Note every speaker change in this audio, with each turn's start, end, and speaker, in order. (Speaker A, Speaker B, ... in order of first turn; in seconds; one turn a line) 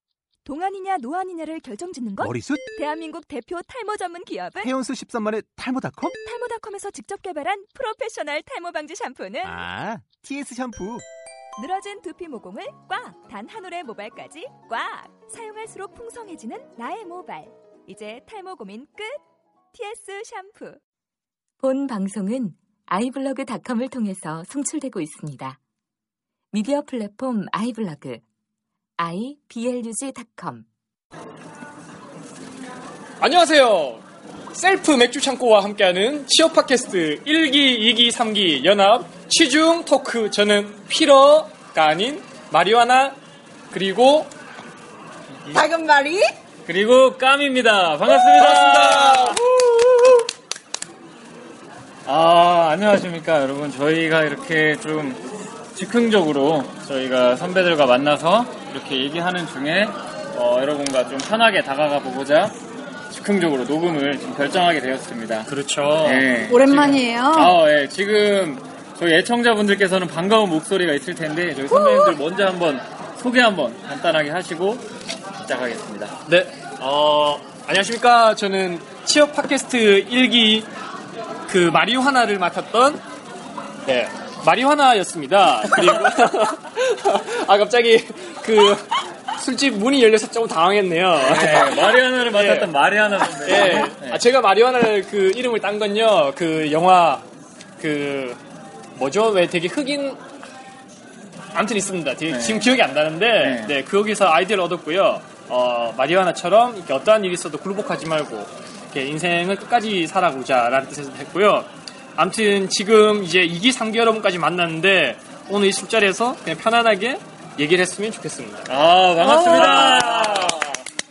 Speaker A: 0.5-4.7
Speaker B: 2.2-2.6
Speaker B: 4.6-6.2
Speaker A: 6.1-9.7
Speaker B: 9.4-11.1
Speaker A: 11.6-19.2
Speaker A: 19.7-20.8
Speaker C: 21.6-25.6
Speaker C: 26.5-28.2
Speaker C: 29.0-30.7
Speaker D: 33.2-34.0
Speaker D: 34.5-43.2
Speaker D: 43.7-44.3
Speaker E: 45.5-46.2
Speaker F: 46.7-49.4
Speaker D: 48.4-49.4
Speaker E: 49.1-50.2
Speaker F: 52.1-55.2
Speaker F: 55.8-62.5
Speaker F: 63.1-74.9
Speaker D: 65.5-66.3
Speaker E: 66.5-67.6
Speaker E: 71.7-72.2
Speaker F: 75.4-76.2
Speaker D: 76.3-80.7
Speaker D: 81.5-83.0
Speaker D: 83.9-97.3
Speaker F: 91.2-94.2
Speaker D: 97.8-98.4
Speaker D: 99.0-100.2
Speaker D: 101.5-118.7
Speaker F: 102.3-102.8
Speaker F: 103.4-103.8
Speaker F: 118.7-120.8
Speaker E: 119.2-119.9
Speaker D: 119.4-120.6